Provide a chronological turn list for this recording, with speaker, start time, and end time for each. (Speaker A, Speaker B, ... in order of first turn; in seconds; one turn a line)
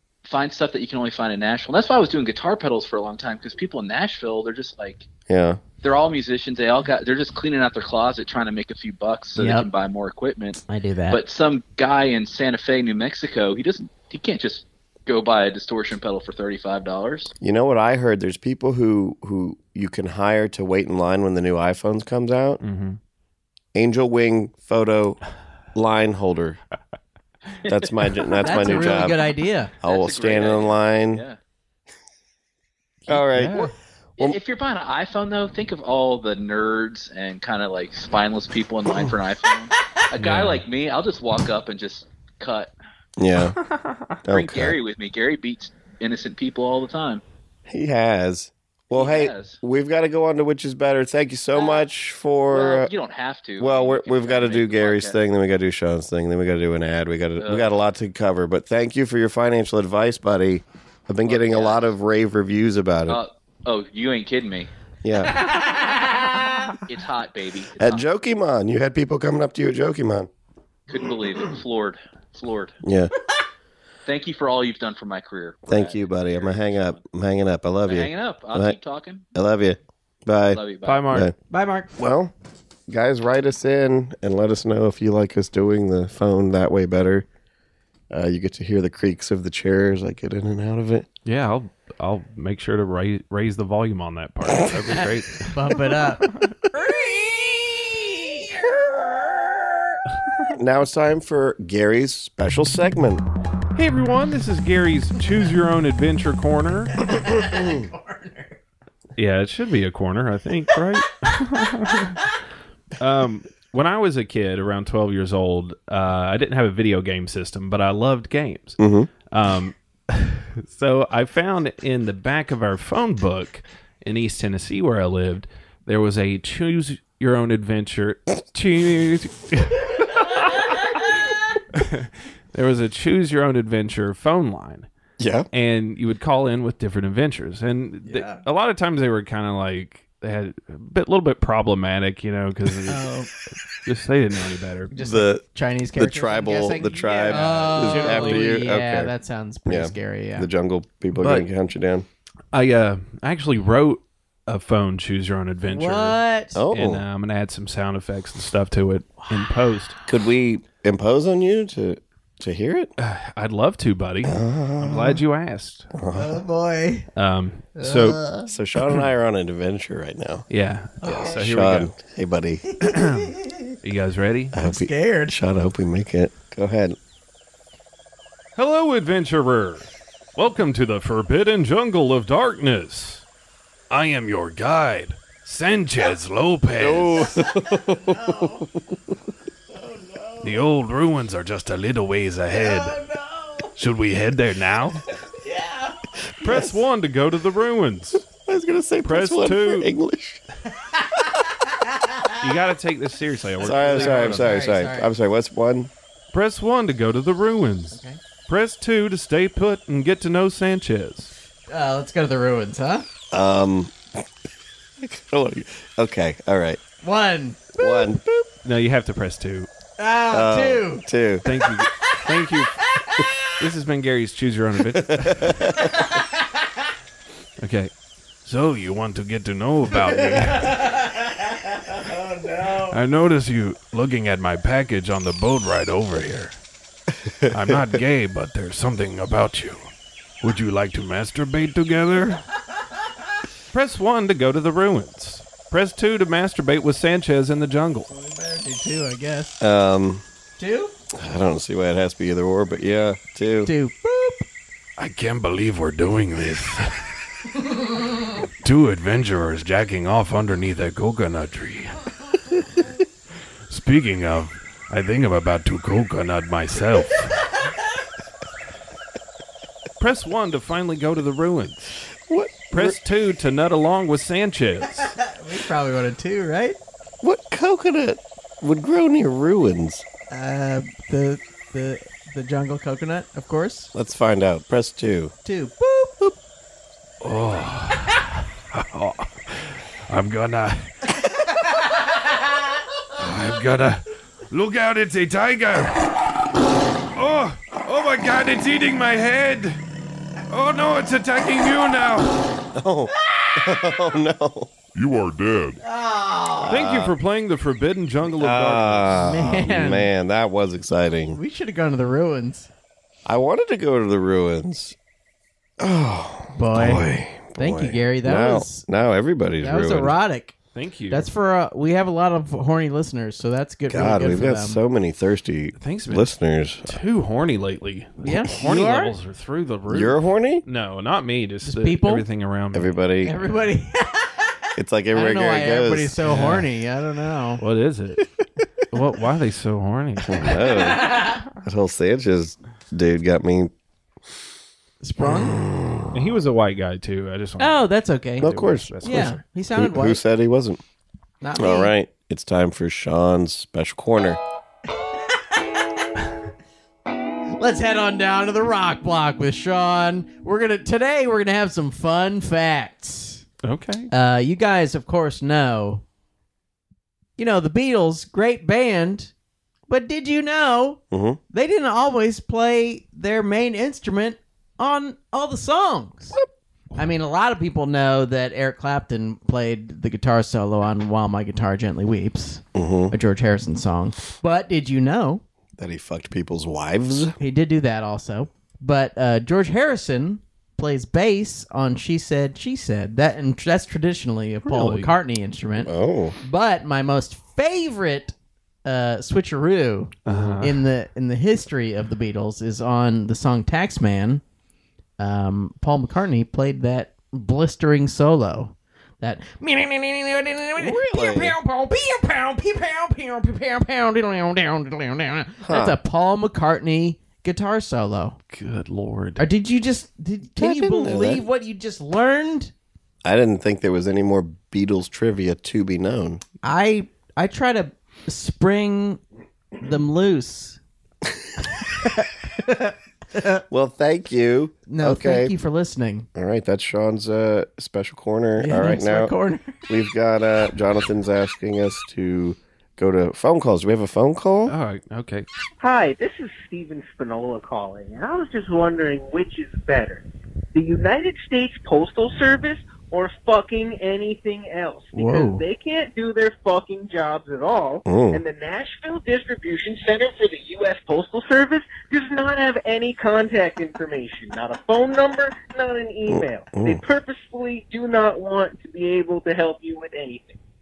Speaker A: 0.2-5.1
Speaker B: 5.3-5.6
Speaker A: 5.8-17.3
Speaker C: 9.3-9.7
Speaker C: 10.7-11.2
Speaker B: 17.4-22.6
Speaker D: 22.6-23.0
Speaker B: 23.7-25.2
Speaker B: 25.7-26.6
Speaker A: 27.6-29.2
Speaker B: 27.7-29.1
Speaker C: 28.4-29.7
Speaker B: 29.8-31.2
Speaker A: 29.8-31.4
Speaker B: 33.1-34.4
Speaker D: 33.1-33.7
Speaker A: 34.2-42.7
Speaker D: 40.2-40.6
Speaker B: 43.2-43.6
Speaker B: 44.2-44.8
Speaker A: 44.3-47.2
Speaker B: 47.7-52.9
Speaker A: 48.9-49.6
Speaker A: 51.5-51.8
Speaker A: 52.5-55.2
Speaker B: 53.6-63.2
Speaker A: 57.4-57.7
Speaker A: 61.3-61.9
Speaker A: 63.1-64.7
Speaker B: 65.0-65.4
Speaker C: 65.4-66.2
Speaker A: 66.9-68.0
Speaker B: 67.8-70.3
Speaker A: 70.9-72.8
Speaker B: 72.8-73.1
Speaker A: 74.0-77.0
Speaker B: 75.7-78.8
Speaker A: 77.8-79.2
Speaker B: 79.3-81.3
Speaker A: 80.5-81.0
Speaker D: 80.8-81.3
Speaker C: 81.5-81.9
Speaker B: 82.0-82.3
Speaker B: 82.9-87.2
Speaker B: 88.1-91.1
Speaker D: 91.2-96.5
Speaker C: 95.3-100.0
Speaker B: 100.5-103.2
Speaker D: 103.7-107.1
Speaker C: 107.0-108.6
Speaker D: 109.2-112.2
Speaker C: 111.9-112.3
Speaker D: 113.0-118.8
Speaker B: 118.8-119.1
Speaker D: 119.3-131.0
Speaker D: 131.7-134.9
Speaker B: 135.2-135.5
Speaker D: 135.5-143.1
Speaker C: 138.0-138.4
Speaker C: 142.9-143.3
Speaker D: 143.8-144.9
Speaker C: 144.9-150.5
Speaker B: 144.9-149.1
Speaker D: 147.2-148.5
Speaker B: 149.7-152.1
Speaker D: 151.2-151.5
Speaker D: 152.5-156.2
Speaker C: 155.7-156.6
Speaker B: 156.5-157.0
Speaker D: 156.7-160.0
Speaker B: 160.1-162.9
Speaker D: 163.0-165.9
Speaker B: 164.2-165.2
Speaker B: 165.9-166.4
Speaker C: 166.1-167.1
Speaker D: 167.2-168.2
Speaker C: 167.8-168.5
Speaker B: 168.4-170.4
Speaker D: 170.5-171.9
Speaker C: 171.0-171.4
Speaker B: 171.1-172.9
Speaker C: 172.7-173.8
Speaker D: 172.9-173.3
Speaker D: 173.8-174.6
Speaker B: 174.5-177.0
Speaker C: 174.6-175.3
Speaker D: 178.6-183.2
Speaker D: 183.9-187.3
Speaker B: 186.7-189.0
Speaker C: 187.3-188.7
Speaker C: 189.7-190.6
Speaker D: 190.4-193.0
Speaker C: 192.5-193.7
Speaker D: 193.8-195.0
Speaker C: 195.3-196.0
Speaker D: 196.4-198.3
Speaker B: 196.4-196.7
Speaker B: 198.3-200.4
Speaker D: 199.0-199.9
Speaker C: 200.8-202.4
Speaker D: 202.4-204.6
Speaker B: 203.6-205.9
Speaker C: 203.6-205.1
Speaker D: 206.3-211.3
Speaker C: 207.9-208.2
Speaker C: 211.7-213.1
Speaker B: 213.3-214.2
Speaker B: 215.0-216.8
Speaker C: 217.0-218.2
Speaker B: 217.8-218.5
Speaker D: 218.6-219.7
Speaker C: 220.0-221.1
Speaker B: 220.3-221.5
Speaker D: 221.4-222.8
Speaker C: 221.9-222.2
Speaker C: 222.8-223.6
Speaker D: 223.6-225.7
Speaker B: 224.9-225.9
Speaker C: 225.7-226.7
Speaker D: 227.6-227.9
Speaker D: 228.4-230.8
Speaker C: 230.3-233.0
Speaker D: 232.9-236.6
Speaker D: 237.5-242.4
Speaker D: 243.7-248.1
Speaker C: 248.1-249.6
Speaker B: 249.6-250.2
Speaker C: 250.6-250.9
Speaker B: 251.1-253.7
Speaker C: 253.6-254.4
Speaker D: 255.0-257.0
Speaker C: 257.6-258.1
Speaker D: 258.6-262.6
Speaker D: 263.7-267.4
Speaker C: 267.4-267.8
Speaker D: 270.0-272.0
Speaker B: 272.3-273.0
Speaker D: 272.7-275.1
Speaker C: 275.0-276.8
Speaker B: 277.2-280.0
Speaker C: 280.3-283.9
Speaker B: 283.9-285.3
Speaker C: 285.4-286.3
Speaker D: 287.2-291.0
Speaker D: 293.1-296.2
Speaker D: 297.1-299.8
Speaker D: 300.5-302.6
Speaker B: 302.7-304.7
Speaker C: 303.2-303.6
Speaker C: 305.8-306.8
Speaker B: 306.6-307.1
Speaker D: 306.6-309.3
Speaker B: 308.4-311.4
Speaker C: 309.1-310.1
Speaker C: 311.3-312.7
Speaker B: 313.2-314.9
Speaker B: 315.8-320.1
Speaker C: 316.5-318.8
Speaker C: 319.6-320.5
Speaker D: 320.7-321.3
Speaker C: 321.1-324.8
Speaker B: 323.9-327.0
Speaker D: 325.8-326.3
Speaker D: 326.8-333.0
Speaker C: 328.2-329.1
Speaker B: 329.9-330.6
Speaker C: 331.6-332.2
Speaker B: 332.7-333.4
Speaker C: 333.2-337.6
Speaker B: 334.8-336.2
Speaker D: 336.2-336.7
Speaker D: 337.6-338.2
Speaker D: 338.9-340.6
Speaker B: 340.3-343.7
Speaker C: 340.6-341.4
Speaker C: 345.0-345.6
Speaker B: 345.2-346.4
Speaker D: 346.1-347.8
Speaker C: 347.6-350.2
Speaker D: 348.4-349.4
Speaker B: 348.4-350.8
Speaker C: 351.4-351.9
Speaker B: 351.6-354.4
Speaker C: 357.5-363.4
Speaker D: 363.6-364.1
Speaker C: 364.1-366.0
Speaker C: 367.4-369.3
Speaker C: 369.9-376.4
Speaker B: 371.1-371.4
Speaker C: 376.9-385.4
Speaker B: 382.7-383.1
Speaker B: 385.8-387.3
Speaker C: 387.4-404.4
Speaker D: 394.6-395.1
Speaker B: 395.8-396.4
Speaker D: 400.2-400.8
Speaker C: 405.2-418.4
Speaker B: 410.8-411.6
Speaker B: 415.6-416.0
Speaker D: 418.5-419.4
Speaker C: 419.4-422.7
Speaker B: 420.6-421.4
Speaker B: 423.2-426.4
Speaker C: 426.6-429.2
Speaker C: 429.8-430.8
Speaker C: 431.8-433.6
Speaker B: 433.7-435.5
Speaker C: 434.9-436.3
Speaker B: 436.3-439.3
Speaker C: 438.6-439.9
Speaker B: 439.9-444.8
Speaker D: 444.7-445.5
Speaker E: 445.8-470.6
Speaker C: 455.1-455.6
Speaker B: 458.1-458.4
Speaker B: 466.3-467.0